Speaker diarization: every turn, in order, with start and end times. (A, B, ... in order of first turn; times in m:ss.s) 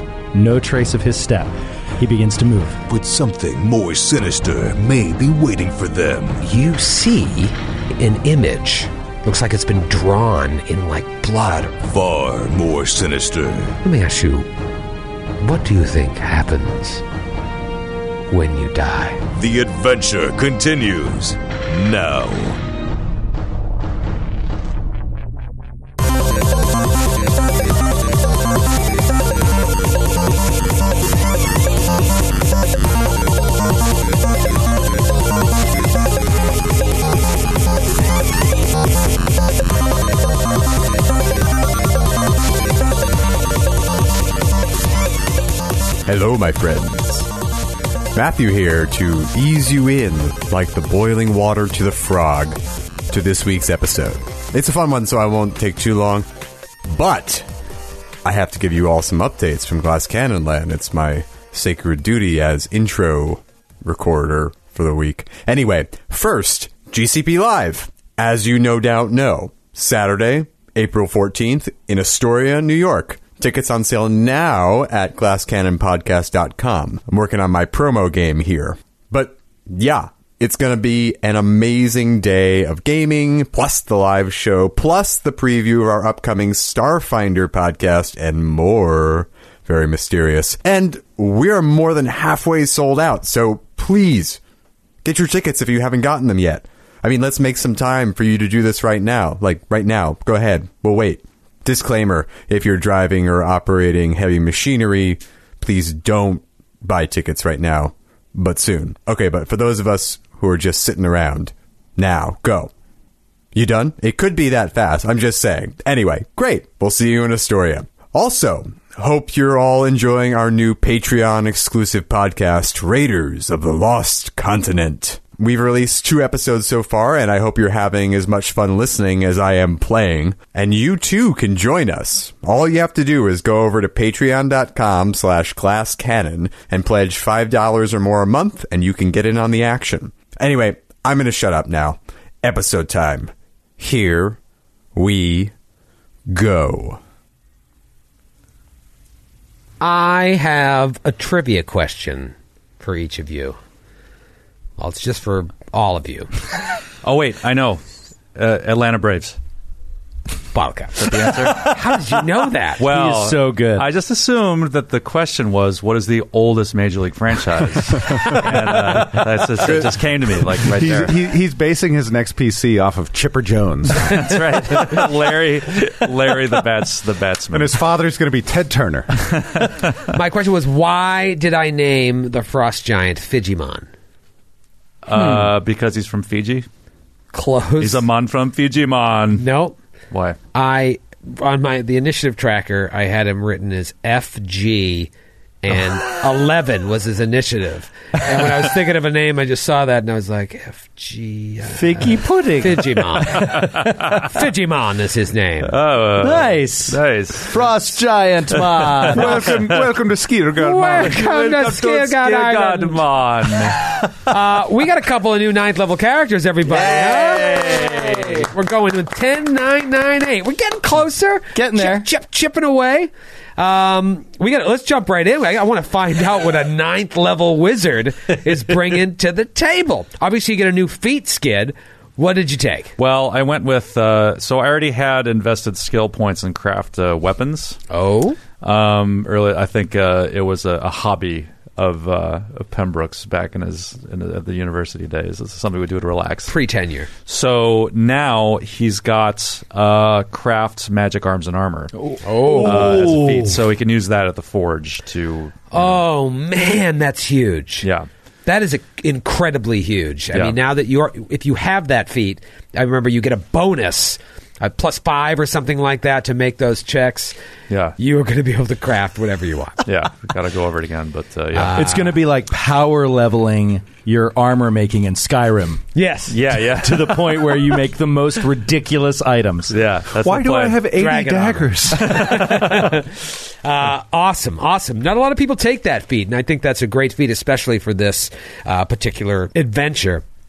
0:00.3-0:02.8 A
0:02.9-0:06.4 B
0:06.4-0:11.8 C
0:11.8-0:13.8 B
0:13.8-0:14.5 C
0:15.4-0:17.0 C
0:18.3-0:19.2 C
0:19.3-0:22.6 B
0:46.1-0:47.3 D
0:48.1-0:56.3 D
0:56.9-0:57.5 D
0:58.2-1:34.4 D
1:35.0-1:52.7 D
1:53.5-2:24.4 D
2:24.9-2:25.5 D
2:26.3-2:27.0 D
2:29.8-2:33.6 C
2:34.8-2:36.3 C
2:37.0-2:37.8 E
2:38.4-2:39.4 E
2:40.5-2:42.8 C
2:41.0-2:41.8 E
2:42.8-2:51.2 E
2:42.8-2:43.9 A
2:50.6-2:55.0 F
2:53.9-2:57.9 E
2:57.5-2:59.1 F
2:59.3-2:59.8 E
3:00.1-3:03.9 C
3:05.0-3:06.7 E
3:07.3-3:08.1 C
3:07.8-3:09.4 E
3:09.4-3:09.8 C
3:10.1-3:10.4 E
3:10.5-3:15.1 C
3:15.6-3:25.8 C
3:21.7-3:23.4 A
3:23.3-3:24.3 E
3:25.6-3:28.0 E
3:26.2-3:29.5 A
3:28.5-3:29.9 E
3:29.1-3:31.1 F
3:30.6-3:33.0 C
3:30.8-3:34.0 E
3:34.3-3:52.9 C
3:36.8-3:37.4 A
3:41.5-3:42.1 A
3:53.0-3:57.8 E
3:57.9-3:58.4 C
3:58.6-4:06.5 E
4:06.5-4:07.1 C
4:07.3-4:12.0 E
4:12.0-4:13.5 A
4:12.2-4:13.2 C
4:12.6-4:16.0 E
4:15.7-4:17.9 C
4:17.8-4:18.1 E
4:18.5-4:27.4 C
4:20.3-4:20.6 E
4:27.7-4:28.0 E
4:28.0-4:29.9 C
4:29.8-4:32.2 E
4:31.5-4:32.1 C
4:31.7-4:35.8 A
4:36.0-4:36.6 C
4:36.3-4:37.5 E
4:36.8-4:39.8 A
4:39.7-4:40.9 E
4:40.2-4:42.1 F
4:40.9-4:50.2 C
4:42.1-4:42.9 E